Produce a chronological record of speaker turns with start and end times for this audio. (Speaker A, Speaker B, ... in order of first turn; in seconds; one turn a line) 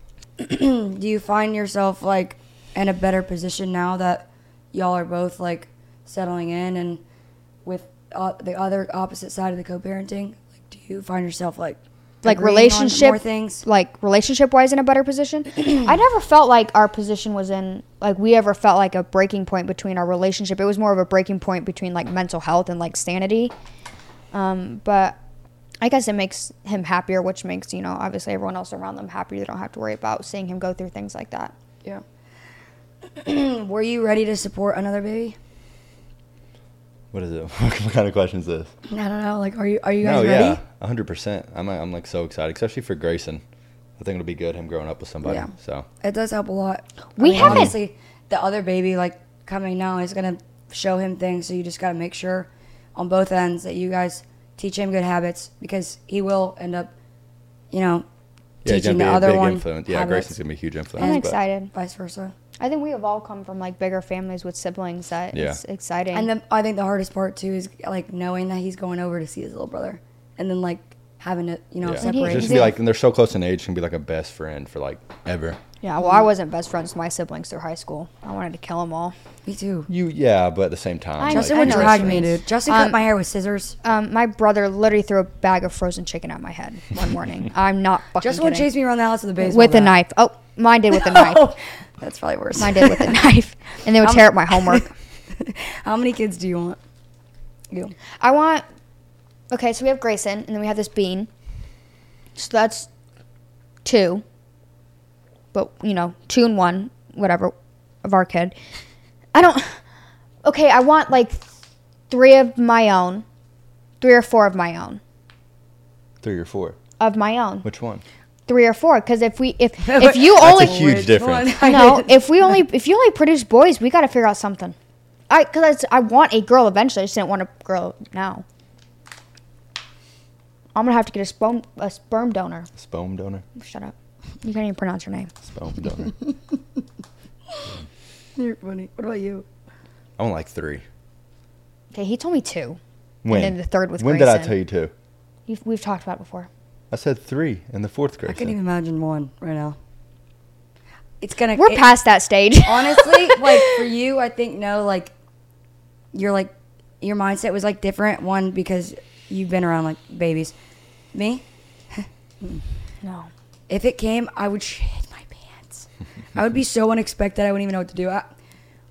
Speaker A: 0.4-7.0
Speaker A: 7.6-13.6
Speaker B: 12.2-23.5
Speaker B: 24.3-25.2
Speaker B: 25.8-31.5
Speaker A: 33.1-35.4
Speaker C: 37.1-38.7
Speaker A: 38.9-40.6
Speaker C: 40.0-43.4
Speaker C: 44.0-45.9
Speaker A: 45.2-56.9
Speaker B: 47.2-47.8
Speaker C: 47.4-47.7
Speaker A: 57.7-58.1
Speaker C: 58.6-61.4
Speaker A: 58.6-60.4
Speaker B: 61.0-61.7
Speaker A: 61.0-62.3
Speaker B: 62.6-66.3
Speaker C: 65.3-65.6
Speaker A: 66.1-72.7
Speaker C: 71.8-75.6
Speaker B: 72.0-72.8
Speaker B: 75.8-79.1
Speaker A: 79.5-79.9
Speaker C: 79.9-82.3
Speaker B: 81.2-83.0
Speaker A: 81.3-83.8
Speaker B: 83.8-88.7
Speaker A: 88.2-90.0
Speaker B: 89.4-91.5
Speaker A: 90.9-93.2
Speaker B: 92.6-94.9
Speaker A: 94.0-96.8
Speaker B: 98.2-98.6
Speaker B: 99.5-101.3
Speaker B: 102.4-102.9
Speaker B: 103.8-104.2
Speaker B: 105.5-107.5
Speaker B: 108.0-108.5
Speaker B: 109.3-109.8
Speaker B: 110.4-111.5
Speaker B: 112.1-113.2
Speaker B: 114.0-115.0
Speaker C: 116.2-116.8
Speaker B: 117.0-117.7
Speaker C: 117.6-118.0
Speaker B: 118.5-120.9
Speaker A: 119.8-122.2
Speaker C: 120.3-121.5
Speaker B: 121.6-124.8
Speaker B: 125.3-128.4
Speaker B: 130.8-132.7
Speaker C: 132.8-133.4
Speaker B: 133.6-135.3
Speaker C: 135.4-136.1
Speaker A: 138.4-139.5
Speaker C: 140.2-140.8
Speaker B: 141.9-144.5
Speaker C: 143.2-144.9
Speaker B: 145.5-146.5
Speaker C: 146.9-148.5
Speaker A: 148.3-149.8
Speaker A: 151.2-151.9
Speaker B: 151.6-153.8
Speaker A: 152.6-155.1
Speaker A: 156.1-160.5
Speaker A: 161.1-162.6
Speaker B: 163.0-163.3
Speaker A: 163.7-168.3